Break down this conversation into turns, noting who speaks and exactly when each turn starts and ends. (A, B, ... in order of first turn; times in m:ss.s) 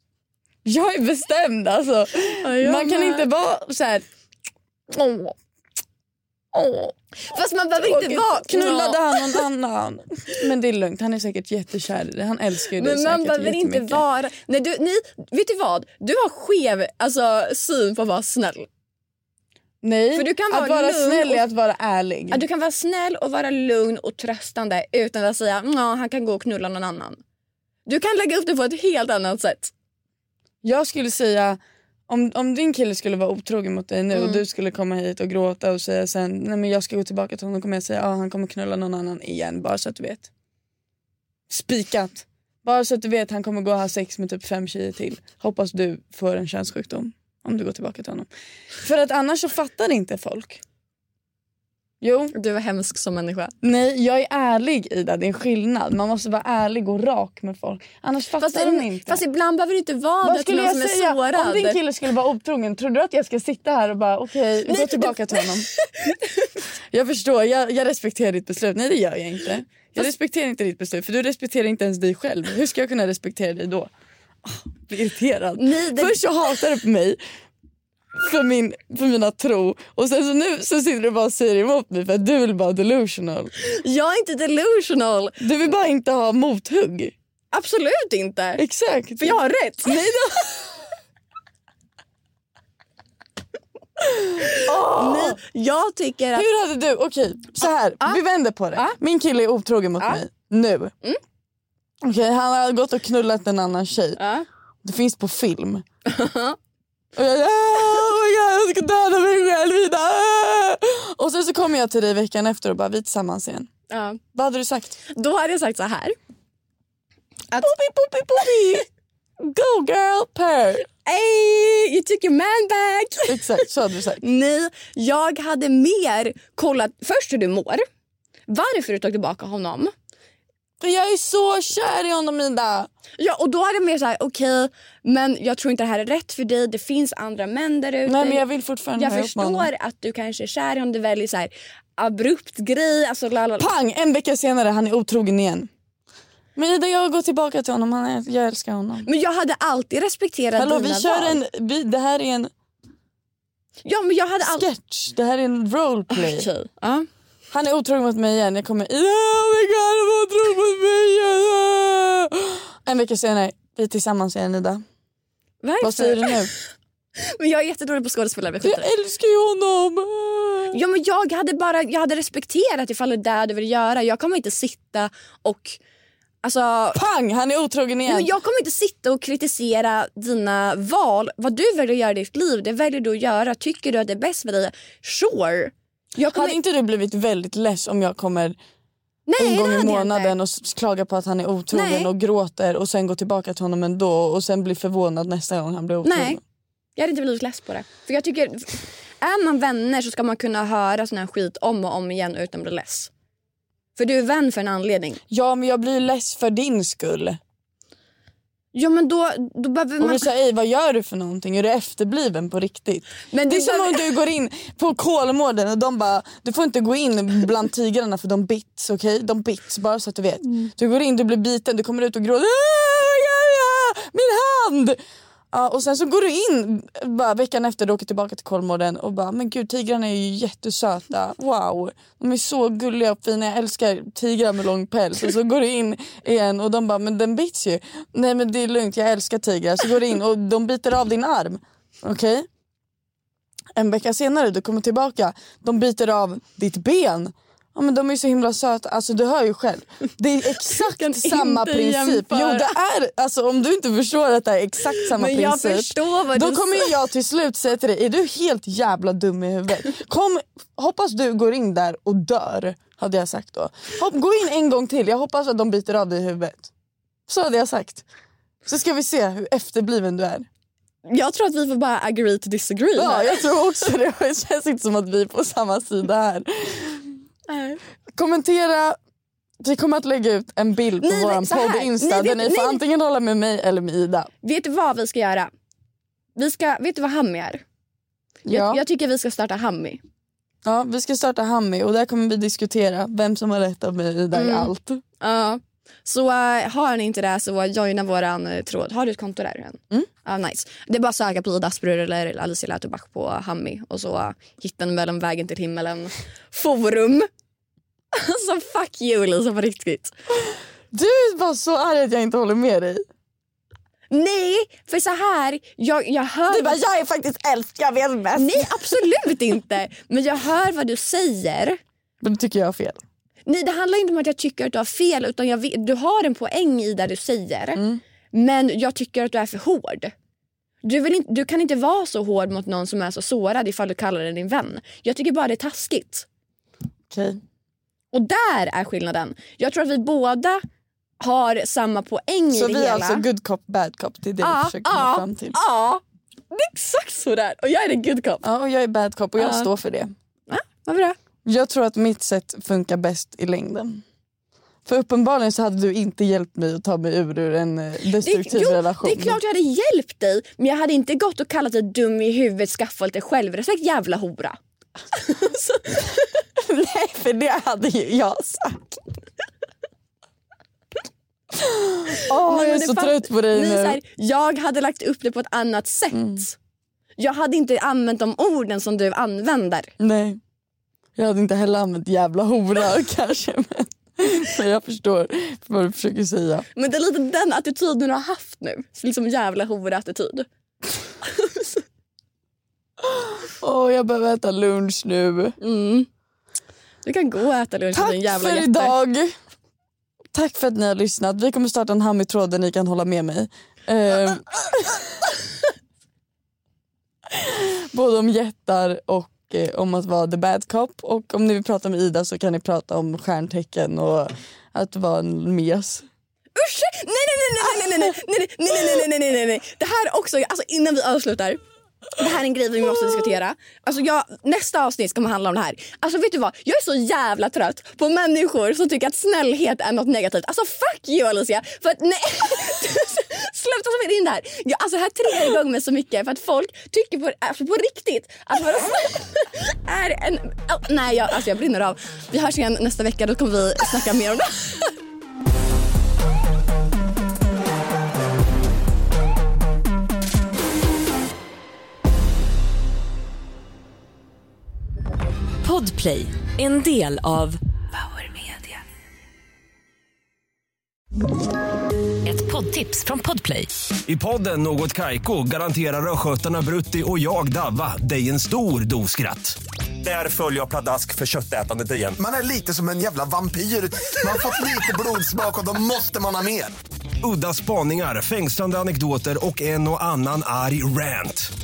0:00.6-0:04.0 A
0:02.4-0:03.2 B
0:04.9-0:05.4 A
0:06.5-0:07.0 A
0:07.2-0:09.4 B
0:07.8-0:14.0 A
0:12.7-0:18.7 B
0:19.8-0:22.4 A
0:20.1-0:21.4 B
0:22.3-0:27.2 B
0:27.9-0:29.7 B
0:30.6-0:40.3 A
0:34.1-0:34.4 B
0:41.5-0:50.6 A
0:52.0-0:52.3 A
0:52.3-0:53.5 B
0:53.6-0:59.2 A
0:58.4-1:01.8 B
1:00.2-1:05.7 A
1:04.7-1:06.5 B
1:06.9-1:13.9 A
1:14.4-1:17.2 A
1:15.6-1:16.2 B
1:18.1-1:23.5 A
1:23.6-1:25.4 B
1:25.4-1:27.1 A
1:27.5-1:28.6 B
1:28.6-1:30.7 A
1:29.2-1:30.6 B
1:34.4-1:35.4 A
1:34.4-1:36.5 B
1:36.3-1:40.9 A
1:37.6-1:38.2 B
1:42.0-1:44.2 A
1:44.2-1:44.4 B
1:44.8-1:45.8 A
1:46.0-1:46.6 B
1:47.2-1:53.7 A
1:53.9-1:54.2 B
1:54.3-1:54.9 A
1:55.1-1:56.2 B
1:57.5-1:58.8 B
1:57.6-1:58.8 A
1:59.4-2:00.9 A
2:01.0-2:03.6 B
2:03.3-2:04.2 A
2:04.2-2:07.8 B
2:08.5-2:09.9 B
2:10.8-2:12.9 A
2:13.2-2:18.4 B
2:18.0-2:19.7 A
2:19.0-2:23.7 B
2:23.6-2:25.7 A
2:26.6-2:29.1 A
2:29.0-2:31.4 B
2:30.6-2:32.5 A
2:33.8-2:34.7 B
2:34.5-2:36.5 A
2:36.1-2:37.0 B
2:37.5-2:44.8 A
2:45.6-2:48.9 B
2:45.8-2:46.5 A
2:48.6-2:50.8 A
2:50.7-2:55.8 B
2:56.4-2:57.0 B
2:56.9-2:58.3 A
2:58.0-3:06.6 B
3:06.3-3:08.6 A
3:09.3-3:10.3 B
3:09.4-3:16.4 A
3:11.7-3:12.1 B
3:16.0-3:16.4 B
3:17.0-3:23.1 B
3:24.0-3:25.2 B
3:25.3-3:27.4 A
3:28.7-3:30.3 B
3:30.0-3:45.0 A
3:33.3-3:34.0 B
3:45.5-4:02.5 A
4:03.7-4:26.7 A
4:10.6-4:12.8 B
4:14.9-4:16.9 B
4:27.3-4:28.0 A
4:28.6-4:30.5 A
4:31.0-4:33.9 B
4:33.0-4:37.2 A
4:37.5-4:37.8 B
4:38.1-4:39.0 A
4:39.6-4:44.3 A
4:41.0-4:42.8 B
4:44.4-4:45.5 B
4:46.4-4:47.6 B
4:48.4-4:48.8 A
4:48.5-4:50.0 B
4:50.6-4:55.0 A
4:54.3-5:07.3 B
5:08.1-5:10.1 B
5:10.9-5:13.0 A
5:14.1-5:16.8 B
5:16.5-5:19.0 A
5:18.4-5:21.8 B
5:22.2-5:23.0 A
5:23.4-5:30.1 B
5:27.8-5:28.0 A
5:30.8-5:36.2 B
5:37.1-5:37.4 A
5:38.1-5:40.6 B
5:41.2-5:43.2 B
5:42.5-5:45.6 A
5:44.4-5:48.4 B
5:48.4-5:50.1 A
5:49.4-5:49.7 B
5:50.5-5:51.2 B
5:51.4-5:54.0 A
5:54.9-5:59.4 A
5:58.1-6:04.6 B
6:05.1-6:06.2 B
6:06.6-6:09.0 A
6:11.5-6:14.0 A
6:12.2-6:16.6 B
6:16.1-6:16.4 A
6:17.2-6:19.9 B
6:20.0-6:20.4 A
6:21.2-6:26.6 A
6:26.7-6:30.4 B
6:31.2-6:31.8 B
6:33.0-6:35.6 A
6:35.6-6:36.1 B
6:37.0-6:38.9 B
6:37.9-6:39.3 A
6:40.3-6:45.1 A
6:47.3-6:56.0 A
6:56.6-7:01.6 B
6:57.6-6:58.1 A
7:02.2-7:24.9 B
7:35.6-7:38.8 C
7:42.2-7:43.7 C
7:44.1-7:52.2 D
7:52.2-7:56.7 E
7:57.2-8:01.5 D